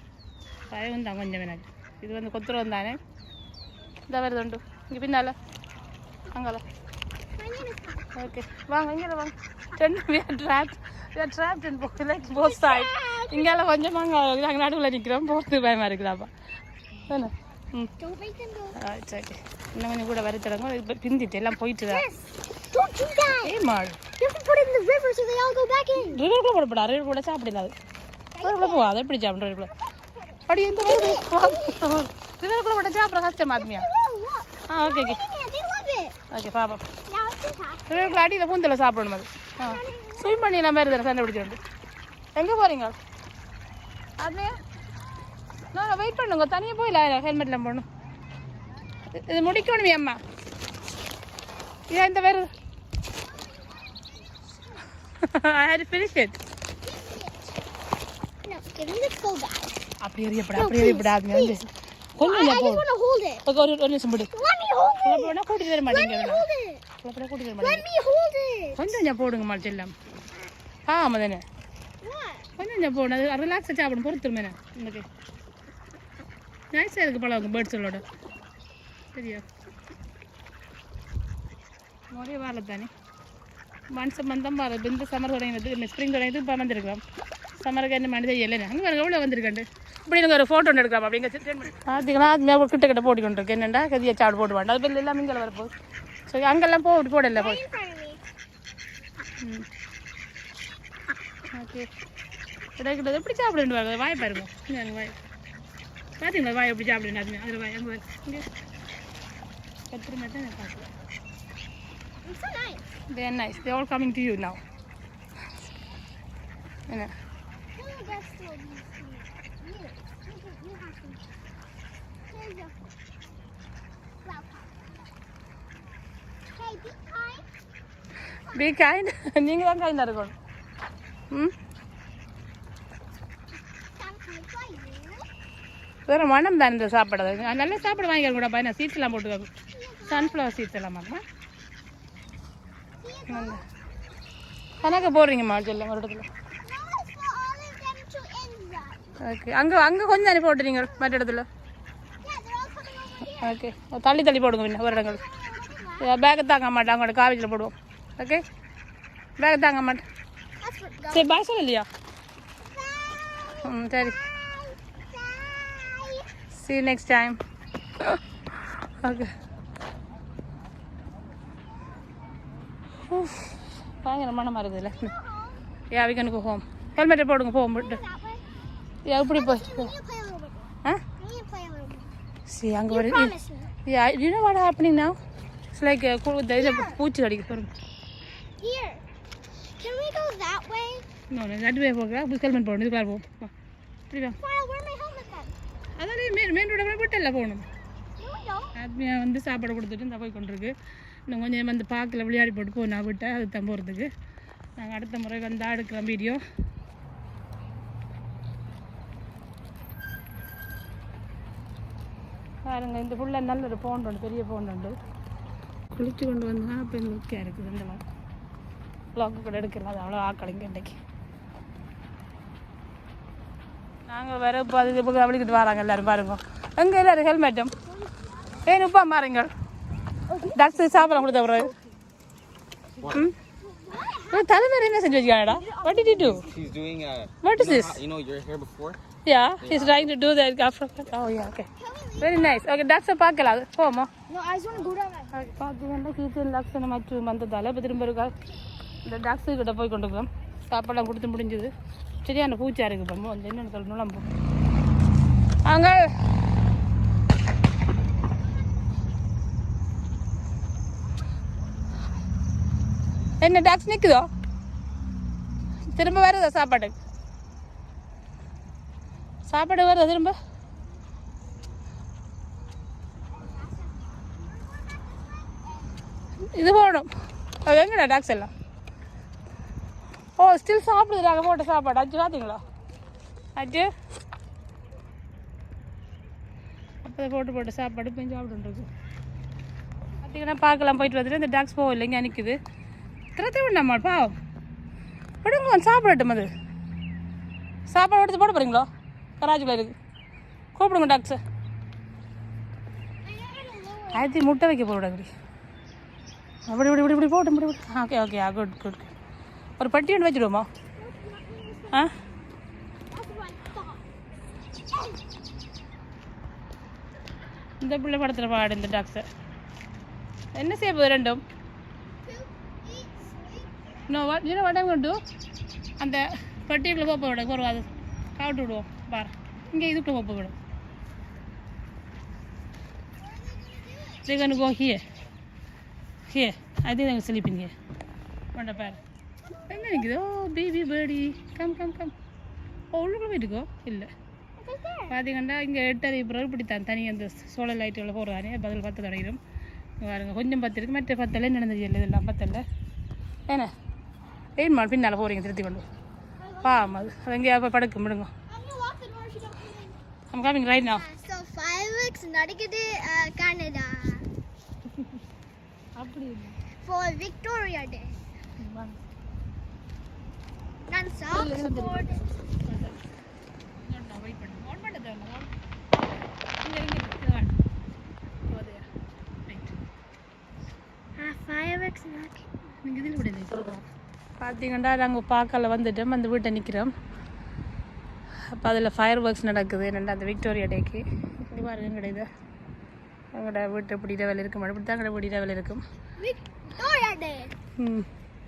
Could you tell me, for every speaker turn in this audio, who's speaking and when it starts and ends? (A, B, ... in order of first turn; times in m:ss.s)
0:00.7-0:03.0 A
0:04.1-0:05.3 A
0:06.3-0:06.6 A
0:07.4-0:08.1 B
0:08.1-0:16.3 A
0:12.3-0:13.8 B
0:17.1-0:17.9 A
0:18.0-0:18.8 B
0:18.8-0:22.0 A
0:21.9-0:23.5 B
0:23.4-0:24.0 A
0:24.2-0:26.2 B
0:26.0-0:27.7 A
0:28.3-0:28.9 B
0:28.4-0:29.7 A
0:30.2-0:31.8 B
0:30.5-0:33.9 A
0:33.6-0:36.2 B
0:34.7-0:35.2 A
0:36.3-0:36.8 A
0:37.1-0:38.2 B
0:37.9-0:41.6 A
0:39.6-0:40.6 B
0:42.4-0:43.0 A
0:44.2-0:44.5 A
0:45.7-0:47.8 A
0:49.1-0:50.2 A
0:51.9-0:52.5 A
0:53.3-0:54.0 B
0:55.2-0:56.4 A
0:56.8-0:57.5 B
0:58.4-0:59.7 B
1:00.0-1:01.6 A
1:00.5-1:01.6 B
1:02.2-1:02.8 A
1:02.2-1:03.4 B
1:03.4-1:04.3 A
1:04.3-1:06.8 B
1:05.0-1:06.4 A
1:07.0-1:07.8 A
1:07.6-1:09.0 B
1:08.8-1:09.9 A
1:10.9-1:11.4 A
1:12.0-1:12.5 B
1:12.6-1:15.0 A
1:16.7-1:18.0 A
1:19.1-1:19.4 A
1:22.1-1:22.9 A
1:23.9-1:27.0 A
1:27.6-1:35.7 A
1:36.3-1:37.6 A
1:37.3-1:38.2 B
1:39.4-1:39.6 A
1:41.5-1:41.9 A
1:42.8-1:45.2 A
1:46.2-1:48.5 A
1:49.9-1:50.9 A
1:52.2-1:52.9 B
1:53.1-1:54.6 A
1:57.8-2:01.2 B
2:02.3-2:02.8 B
2:04.2-2:04.8 B
2:06.5-2:07.4 B
2:08.5-2:08.8 B
2:08.5-2:10.4 A
2:14.0-2:15.3 B
2:16.1-2:19.5 A
2:19.7-2:20.5 B
2:20.1-2:21.2 A
2:23.0-2:23.6 B
2:23.3-2:23.6 A
2:24.8-2:25.3 B
2:24.8-2:26.3 A
2:26.6-2:29.0 B
2:29.2-2:31.4 A
2:32.2-2:33.6 B
2:33.4-2:35.2 A
2:34.8-2:36.1 B
2:36.0-2:38.4 A
2:39.4-2:40.0 A
2:40.6-2:41.4 B
2:41.1-2:41.9 A
2:42.6-2:46.3 B
2:43.6-2:44.2 A
2:46.5-2:47.4 A
2:48.0-2:49.3 A
2:53.0-2:55.1 A
2:54.9-2:55.6 B
2:55.9-2:58.0 A
2:57.8-2:58.4 B
2:59.0-2:59.9 A
2:59.3-3:02.1 B
3:02.5-3:03.3 A
3:02.9-3:03.7 B
3:03.8-3:05.2 A
3:05.7-3:07.7 A
3:06.5-3:07.0 B
3:08.6-3:09.0 B
3:09.8-3:11.0 B
3:11.3-3:13.5 A
3:14.1-3:14.4 A
3:14.4-3:15.5 B
3:16.0-3:17.6 A
3:18.2-3:18.7 B
3:18.7-3:20.7 A
3:21.3-3:24.1 A
3:24.8-3:26.4 A
3:32.7-3:34.9 A
3:35.9-3:38.0 A
3:39.1-3:41.0 A
3:44.1-3:47.7 A
3:48.1-3:48.3 B
3:48.6-3:49.5 A
3:50.3-3:51.7 B
3:50.5-3:51.7 A
3:53.1-3:53.3 A
3:53.6-3:56.6 B
3:54.3-3:56.5 A
3:56.5-3:59.0 C
3:57.4-3:58.0 A
3:59.2-4:01.7 A
3:59.6-4:00.0 C
4:01.8-4:02.6 B
4:02.2-4:04.1 A
4:04.3-4:05.3 B
4:05.3-4:08.3 A
4:09.0-4:14.2 A
4:15.6-4:16.1 A
4:23.4-4:24.3 A
4:25.9-4:27.0 A
4:29.4-4:30.3 A
4:33.3-4:35.9 B
4:36.5-4:37.1 A
4:37.6-4:38.5 A
4:40.4-4:42.6 A
4:43.6-4:43.9 A
4:47.0-4:48.9 A
4:50.2-4:52.6 A
4:53.3-4:54.3 A
4:55.4-4:56.5 A
4:57.9-4:58.9 A
4:59.4-4:59.9 A
5:00.8-5:01.4 A
5:03.2-5:04.4 B
5:04.1-5:05.3 A
5:06.7-5:09.1 A
5:09.8-5:10.7 A
5:11.0-5:12.1 B
5:13.1-5:14.0 B
5:14.9-5:15.2 B
5:17.8-5:19.2 A
5:20.6-5:21.4 A
5:22.2-5:23.7 B
5:24.1-5:25.2 A
5:26.0-5:27.8 A
5:28.4-5:30.6 A
5:33.4-5:34.2 B
5:34.2-5:35.0 A
5:36.3-5:37.7 A
5:38.5-5:39.0 A
5:39.7-5:42.1 A
5:42.9-5:44.1 A
5:44.6-5:45.2 B
5:45.1-5:49.4 A
5:50.0-5:52.6 A
5:54.6-5:55.8 A
5:56.4-5:57.2 B
5:56.6-5:58.3 A
5:58.5-6:00.0 B
6:00.3-6:01.0 A
6:00.9-6:04.3 B
6:06.0-6:06.6 A
6:06.8-6:08.2 B
6:08.6-6:09.0 A
6:10.8-6:12.2 B
6:11.3-6:13.0 A
6:13.8-6:15.5 A
6:16.6-6:17.6 A
6:18.4-6:18.8 A
6:19.4-6:19.7 A
6:21.2-6:22.5 B
6:22.8-6:23.8 A
6:24.4-6:26.9 A
6:28.5-6:32.3 A
6:33.3-6:35.8 A
6:36.2-6:37.5 B
6:37.8-6:38.1 A